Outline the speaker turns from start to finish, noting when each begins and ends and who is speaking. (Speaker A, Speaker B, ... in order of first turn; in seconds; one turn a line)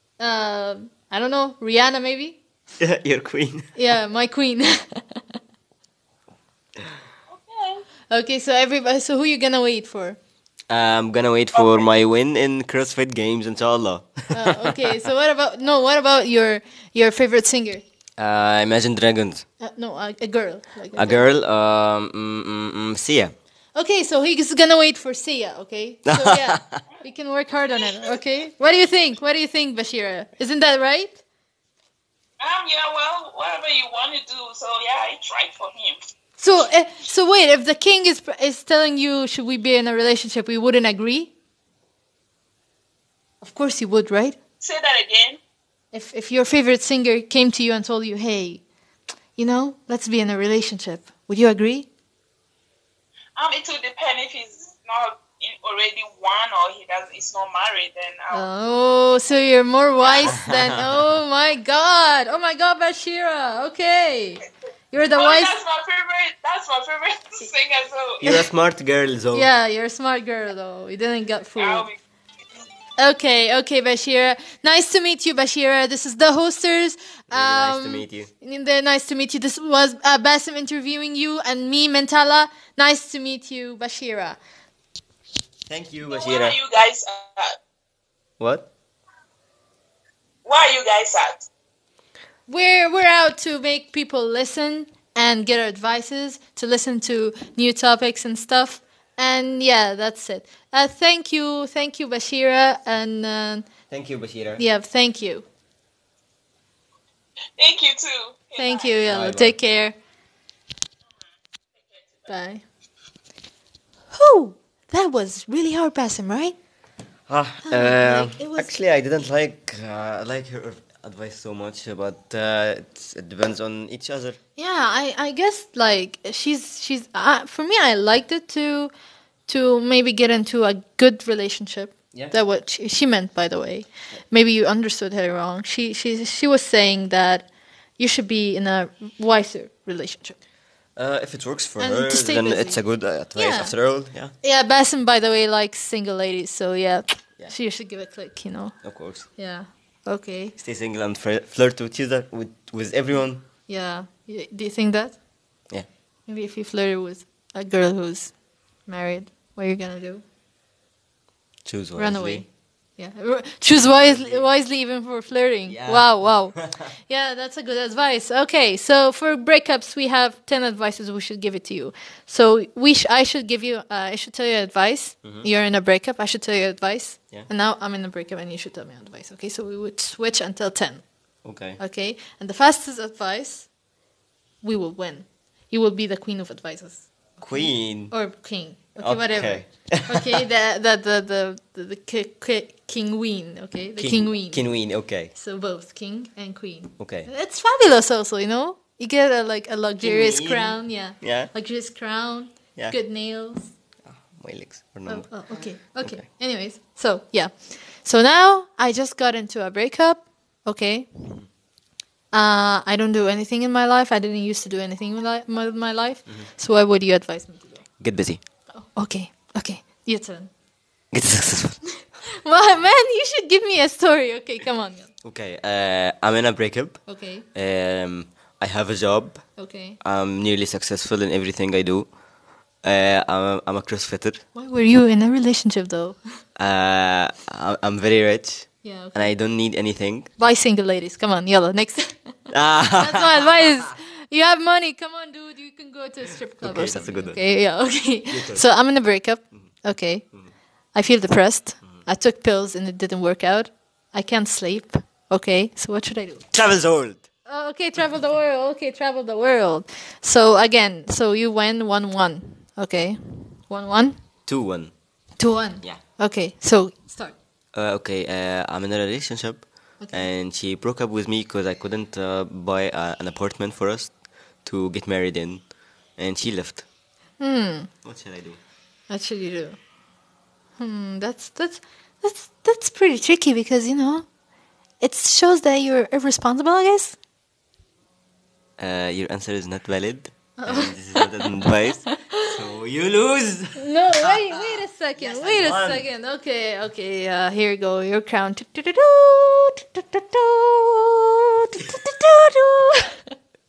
Speaker A: 0.2-2.4
Speaker B: 2.8-3.7
Speaker A: 3.8-5.2
Speaker C: 7.3-7.8
Speaker A: 8.1-10.2
Speaker B: 10.7-14.8
Speaker C: 11.5-11.9
Speaker A: 14.3-17.8
Speaker B: 18.2-19.4
Speaker A: 19.6-21.3
Speaker B: 20.9-23.3
Speaker A: 23.8-31.2
Speaker B: 26.1-26.8
Speaker C: 32.4-36.0
Speaker A: 36.4-41.3
Speaker A: 43.4-44.4
Speaker C: 44.6-45.4
Speaker A: 45.9-48.6
Speaker A: 49.4-51.9
Speaker C: 53.4-58.5
Speaker A: 58.3-65.6
Speaker C: 60.0-60.4
Speaker B: 60.3-61.0
Speaker C: 65.2-68.5
Speaker B: 68.2-69.5
Speaker A: 69.3-71.9
Speaker C: 71.6-72.0
Speaker A: 73.0-84.4
Speaker B: 77.3-78.3
Speaker B: 85.7-86.6
Speaker C: 86.1-87.5
Speaker B: 88.4-88.7
Speaker C: 90.5-91.5
Speaker A: 92.5-103.7
Speaker B: 103.9-104.6
Speaker A: 104.6-105.5
Speaker C: 107.6-109.0
Speaker A: 108.6-110.0
Speaker B: 109.1-109.5
Speaker C: 111.1-112.3
Speaker A: 112.3-112.6
Speaker A: 114.1-116.6
Speaker B: 117.3-124.4
Speaker A: 117.6-118.7
Speaker A: 124.6-128.9
Speaker A: 129.5-137.5
Speaker A: 138.0-140.4
Speaker B: 141.0-144.3
Speaker A: 141.8-143.8
Speaker A: 144.4-150.6
Speaker B: 148.8-149.3
Speaker B: 150.6-153.4
Speaker A: 153.7-155.2
Speaker A: 156.3-158.3
Speaker A: 158.9-160.2
Speaker B: 161.7-162.5
Speaker A: 162.0-181.0
Speaker B: 163.7-164.5
Speaker B: 165.7-166.9
Speaker B: 181.4-181.8
Speaker A: 181.8-183.7
Speaker A: 184.6-203.7
Speaker B: 187.4-188.1
Speaker B: 189.0-190.4
Speaker B: 194.0-195.3
Speaker B: 197.0-197.3
Speaker B: 200.0-201.5
Speaker B: 204.1-206.2
Speaker A: 205.1-211.4
Speaker A: 212.3-217.9
Speaker B: 218.0-218.4
Speaker A: 218.7-220.5
Speaker B: 221.1-221.8
Speaker A: 222.4-225.1
Speaker B: 225.2-229.5
Speaker A: 227.1-227.5
Speaker A: 229.6-230.0
Speaker B: 230.0-232.1
Speaker B: 232.8-234.4
Speaker A: 234.6-236.2
Speaker B: 236.6-240.3
Speaker A: 238.8-239.3
Speaker A: 240.4-242.3
Speaker B: 242.5-243.9
Speaker A: 243.0-250.3
Speaker B: 246.6-247.4
Speaker B: 248.3-248.6
Speaker A: 250.9-256.5
Speaker B: 256.5-257.2
Speaker A: 257.4-264.2
Speaker B: 264.5-264.9
Speaker A: 265.4-267.4
Speaker B: 267.7-274.1
Speaker A: 270.0-270.3
Speaker B: 274.6-276.9
Speaker A: 277.4-277.9
Speaker B: 278.0-278.6
Speaker A: 279.1-279.8
Speaker A: 280.8-284.3
Speaker A: 285.0-287.2
Speaker B: 288.8-296.1
Speaker A: 290.6-291.3
Speaker A: 293.8-303.3